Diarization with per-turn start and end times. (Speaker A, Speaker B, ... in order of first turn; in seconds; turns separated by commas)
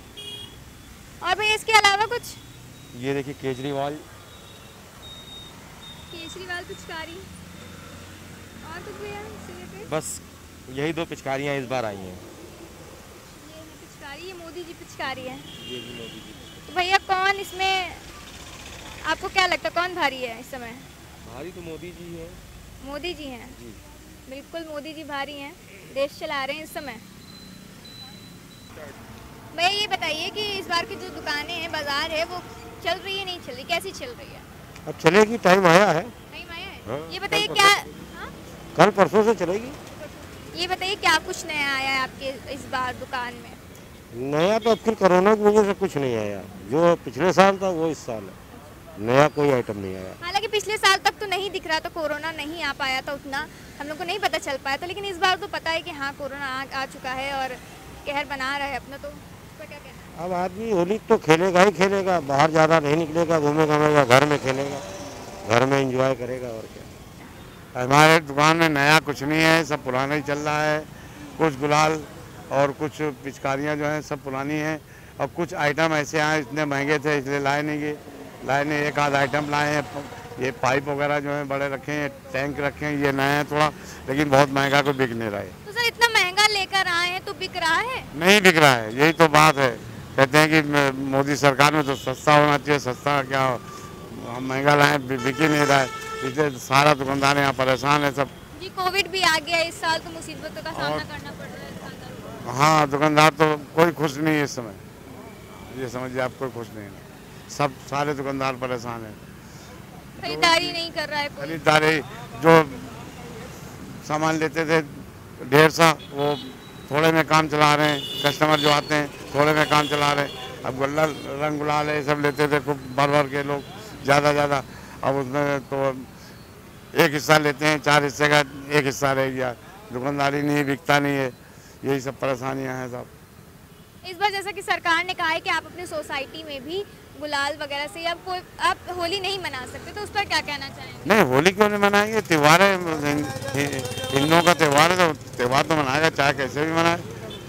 Speaker A: 1.2-2.4, Speaker B: 2.9-4.0, Speaker A: 6.1-7.3, Speaker A: 8.6-9.9, Speaker B: 9.9-12.2, Speaker A: 13.1-15.5, Speaker B: 15.6-16.6, Speaker A: 16.7-18.0, Speaker A: 19.0-20.9, Speaker B: 21.2-22.4, Speaker A: 22.8-23.6, Speaker A: 24.3-27.0, Speaker A: 29.5-34.4, Speaker C: 34.9-36.1, Speaker A: 36.3-38.3, Speaker C: 37.3-37.7, Speaker C: 38.7-39.8, Speaker A: 40.5-43.6, Speaker C: 44.1-48.3, Speaker C: 49.0-50.2, Speaker A: 50.2-60.1, Speaker C: 60.2-64.8, Speaker C: 65.4-66.8, Speaker D: 67.7-85.5, Speaker A: 85.6-88.1, Speaker D: 88.1-98.3, Speaker A: 98.5-102.4, Speaker D: 100.7-101.0, Speaker D: 102.4-104.8, Speaker D: 105.5-109.2, Speaker A: 110.2-111.6, Speaker D: 110.2-110.8, Speaker D: 111.4-112.9, Speaker D: 114.0-126.1, Speaker D: 126.9-133.1, Speaker A: 134.0-141.2, Speaker D: 141.0-147.1